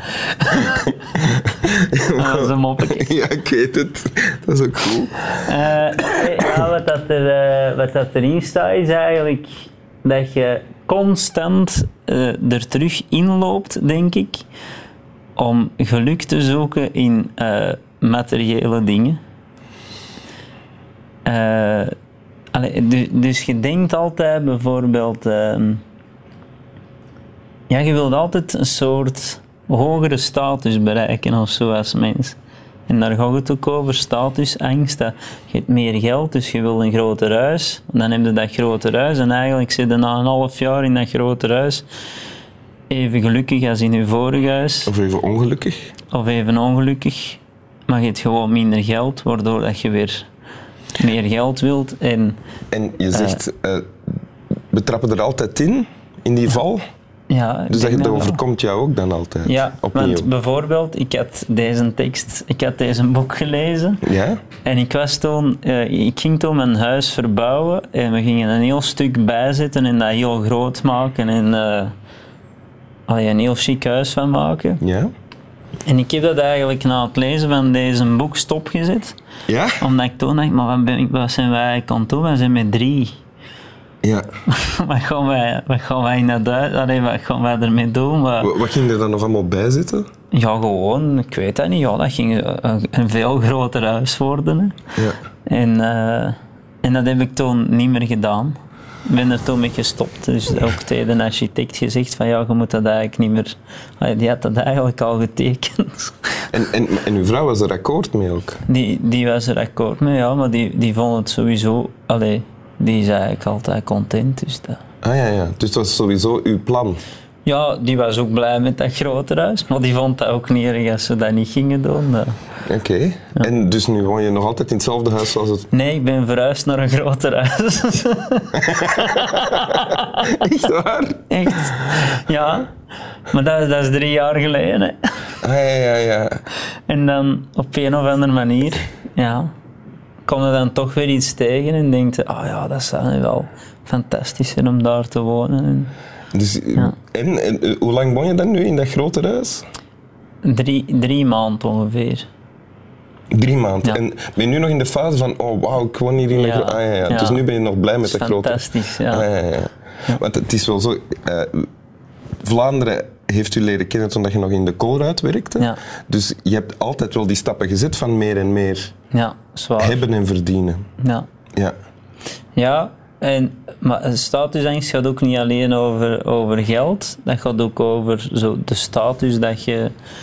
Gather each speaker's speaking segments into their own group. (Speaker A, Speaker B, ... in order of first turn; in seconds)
Speaker A: 0.2-0.9, 2.1-3.1, 5.4-14.4, 15.4-19.2, 21.3-21.9, 22.5-25.8, 27.7-32.4, 32.9-41.9, 42.9-44.9, 46.1-50.3, 51.0-52.4, 53.1-53.4, 57.3-58.4, 59.5-64.0, 64.6-71.9, 73.1-74.8, 75.9-79.2, 79.8-83.1, 84.5-88.6, 90.3-94.8, 95.5-106.5, 108.7-114.8, 117.5-122.3, 125.7-130.3, 131.3-132.7, 133.3-135.0, 136.9-139.5, 140.3-145.9, 150.4-152.3, 156.3-157.4, 158.0-159.3, 169.1-170.0, 171.0-171.3, 172.6-179.9
Speaker B: 0.6-5.4, 6.0-6.3, 44.9-45.9, 52.7-53.9, 54.7-56.8, 57.7-60.3, 64.0-64.4, 74.8-75.1, 79.5-79.8, 88.4-90.1, 106.5-108.6, 115.0-117.0, 122.7-125.7, 130.2-131.7, 135.4-136.4, 146.3-149.7, 153.3-161.7, 162.4-168.9, 169.8-170.8